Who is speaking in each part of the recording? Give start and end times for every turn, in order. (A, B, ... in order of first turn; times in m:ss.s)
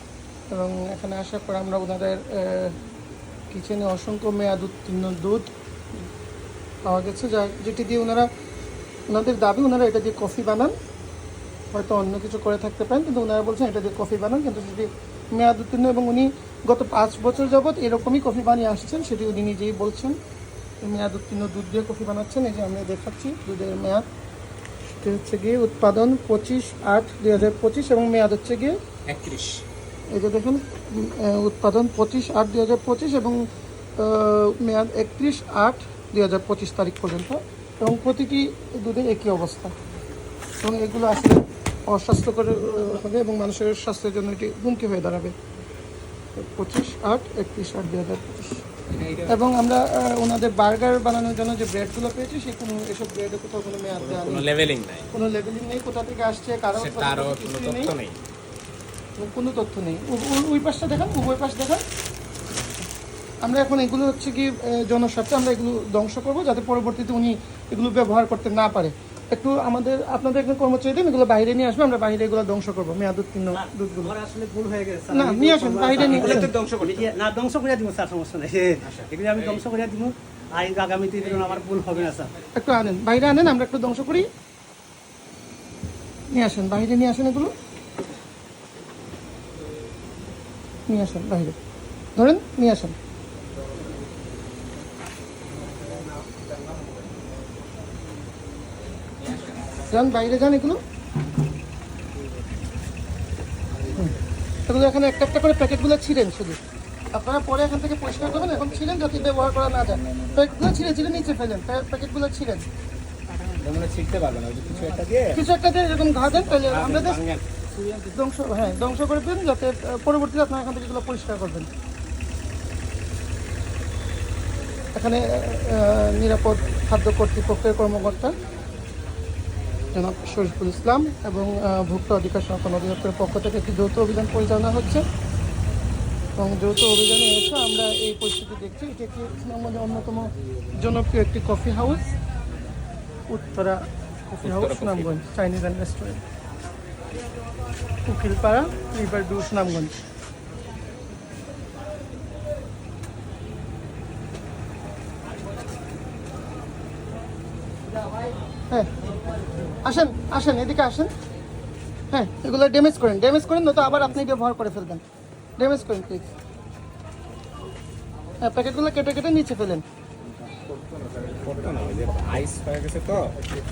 0:00.5-0:02.8 A
0:03.5-0:05.5 A
0:06.8-0:08.3 A
0:09.1-0:10.8 A
0:11.7-0:20.2 A
0:20.8-0:24.1 A
0:24.9-0:28.8 A
0:29.1-0:29.6 B
0:30.1-0:39.7 A
0:40.6-0:45.3 A
0:46.4-0:48.6 A
0:48.9-0:49.4 B
0:49.3-0:54.5 A
0:54.0-0:55.1 B
0:55.1-0:57.9 A
0:56.7-0:58.2 B
0:59.2-1:01.8 A
1:03.4-1:14.1 A
1:13.5-1:22.3 C
1:15.1-1:16.5 A
1:15.9-1:17.1 B
1:18.8-1:19.6 B
1:22.6-1:24.3 A
1:26.3-1:27.5 A
1:30.9-1:31.6 A
1:32.2-1:33.0 A
1:39.8-1:40.8 A
1:44.7-1:46.6 A
1:47.1-1:52.7 A
1:53.5-1:55.5 B
1:55.3-1:57.2 A
1:56.5-1:57.5 B
1:58.0-2:01.7 A
2:05.0-2:08.4 A
2:09.9-2:15.0 A
2:16.4-2:22.1 A
2:23.3-2:26.2 A
2:24.4-2:25.2 B
2:28.1-2:30.0 A
2:39.8-2:41.1 A
2:42.1-2:45.0 A
2:45.6-2:46.3 A
2:48.4-2:49.8 A
2:51.3-2:53.5 B